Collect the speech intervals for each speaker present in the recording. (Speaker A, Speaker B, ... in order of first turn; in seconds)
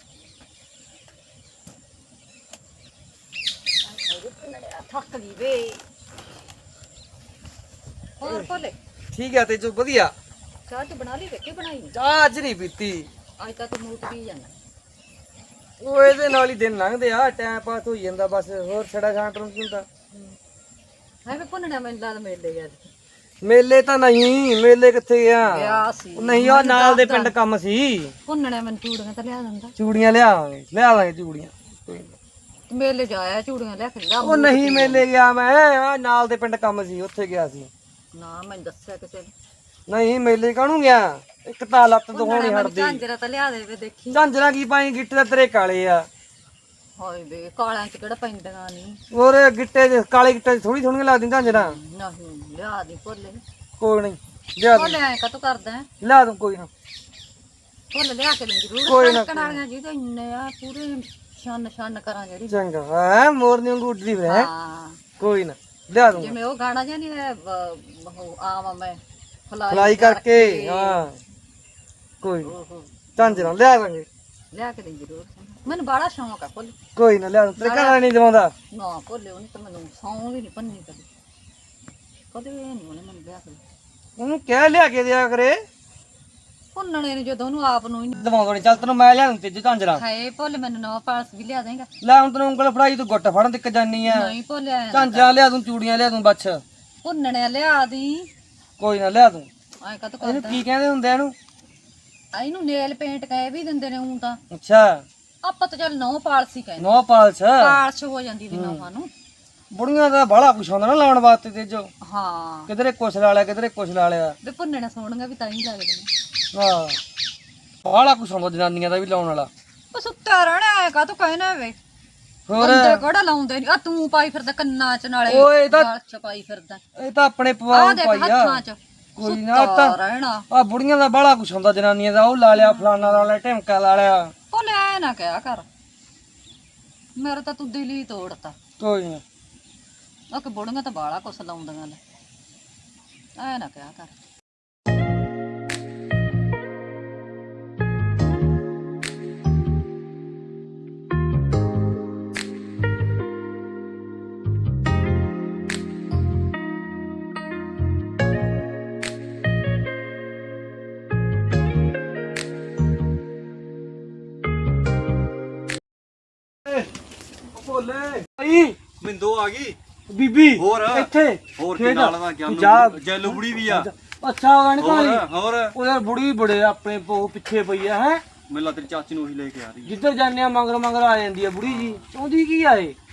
Speaker A: 3.9-5.8, 8.2-8.8, 10.7-11.9, 13.4-14.5, 21.3-22.9, 25.4-27.4, 28.3-29.7, 32.7-35.0, 38.1-39.3, 42.1-44.2, 47.0-49.0, 51.5-53.4, 54.7-55.9, 57.9-62.6, 64.2-65.0, 66.1-71.1, 72.4-73.5, 74.5-76.8, 77.6-78.1, 78.7-81.1, 82.3-83.6, 86.8-88.3, 90.0-91.9, 94.0-95.3, 97.0-98.3, 99.8-100.6, 102.3-104.4, 105.4-107.0, 107.6-109.1, 112.0-112.7, 114.4-116.1, 119.9-121.8, 122.6-126.8, 127.7-130.5, 132.5-133.0, 134.5-135.7, 137.2-138.5, 140.3-142.0, 143.4-144.1
Speaker B: 9.1-10.1, 11.9-13.1, 15.8-19.9, 23.4-28.1, 29.8-32.1, 34.2-37.7, 39.9-43.0, 44.1-46.1, 49.1-51.8, 53.8-55.0, 56.0-56.7, 58.9-59.6, 62.5-64.5, 65.2-66.3, 69.7-71.2, 72.2-72.5, 73.2-74.1, 77.0-78.5, 84.2-85.6, 88.1-90.0, 92.0-94.3, 94.9-96.6, 98.8-99.5, 100.2-101.3, 104.5-105.0, 106.8-107.8, 108.5-108.8, 109.7-111.9, 112.7-114.3, 116.5-117.0, 117.8-119.5, 122.5-123.0, 125.3-125.9, 127.0-128.6, 129.2-130.0, 130.5-134.3, 138.8-139.2, 168.1-168.8, 170.1-178.2, 179.9-183.0
Speaker C: 167.6-168.1, 169.0-169.8, 170.6-173.9, 174.8-175.7, 178.5-179.9, 181.6-182.1